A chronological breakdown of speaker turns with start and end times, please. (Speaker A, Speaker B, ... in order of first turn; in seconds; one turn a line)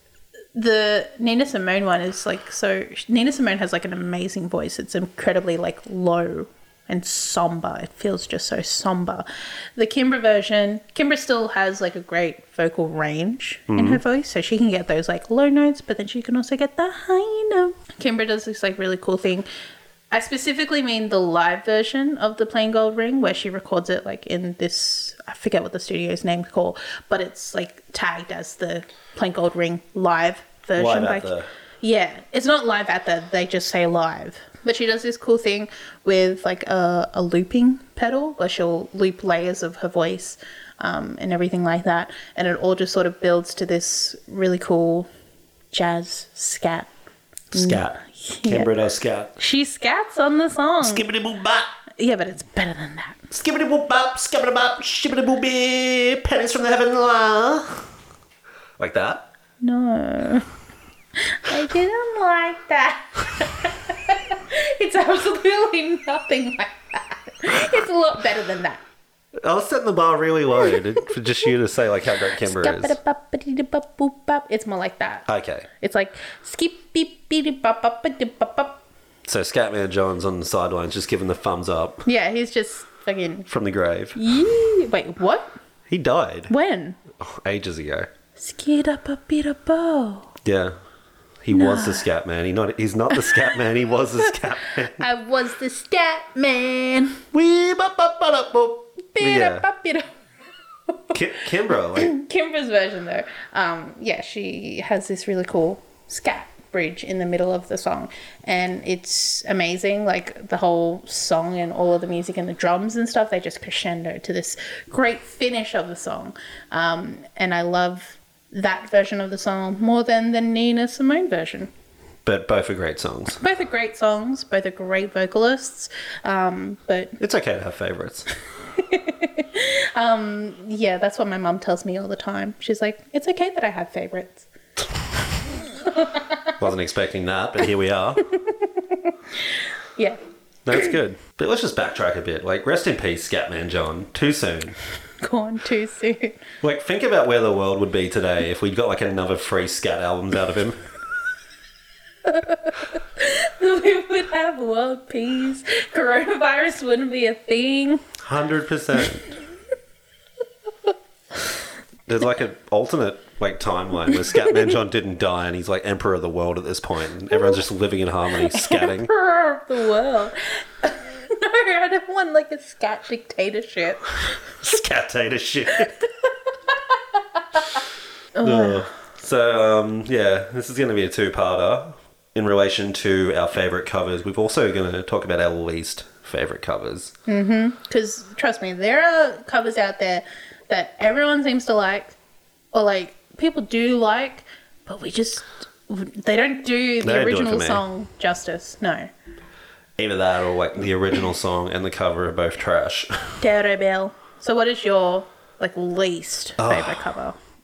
Speaker A: 0.5-19.5
Speaker B: 13.7-14.0
Speaker A: 20.1-45.1
Speaker B: 30.8-31.5
Speaker A: 45.7-46.9
Speaker B: 47.5-49.4
Speaker A: 47.5-48.7
Speaker A: 49.4-51.0
Speaker B: 50.8-51.7
Speaker A: 52.0-53.2
Speaker B: 53.3-57.9
Speaker B: 58.8-59.3
Speaker A: 59.6-60.5
Speaker A: 61.2-68.8
Speaker B: 69.4-73.0
Speaker A: 72.4-75.2
Speaker B: 75.3-75.7
Speaker A: 75.8-78.8
Speaker B: 79.2-82.0
Speaker A: 82.0-83.5
Speaker B: 83.5-84.2
Speaker A: 84.1-85.5
Speaker B: 85.9-86.5
Speaker A: 86.5-87.0
Speaker B: 87.2-88.1
Speaker A: 88.3-90.3
Speaker B: 90.4-90.8
Speaker B: 91.4-95.0
Speaker A: 91.5-92.0
Speaker A: 95.0-97.2
Speaker B: 97.3-99.7
Speaker A: 99.1-100.1
Speaker B: 101.1-102.1
Speaker A: 102.0-121.7
Speaker B: 122.2-123.4
Speaker A: 123.4-127.2
Speaker B: 127.2-128.3
Speaker A: 128.8-134.4
Speaker A: 135.8-136.1
Speaker B: 136.6-138.2
Speaker B: 140.6-144.8
Speaker A: 145.2-146.4
Speaker B: 146.6-150.8
Speaker A: 152.3-158.0
Speaker B: 158.2-159.3
Speaker B: 162.1-169.1
Speaker A: 168.5-174.2
Speaker B: 174.6-175.9
Speaker A: 178.3-178.9
Speaker B: 178.4-187.1
Speaker A: 187.3-192.2
Speaker A: 192.7-199.1
Speaker B: 197.0-197.8
Speaker B: 200.0-203.4
Speaker A: 203.4-207.4
Speaker B: 206.6-207.1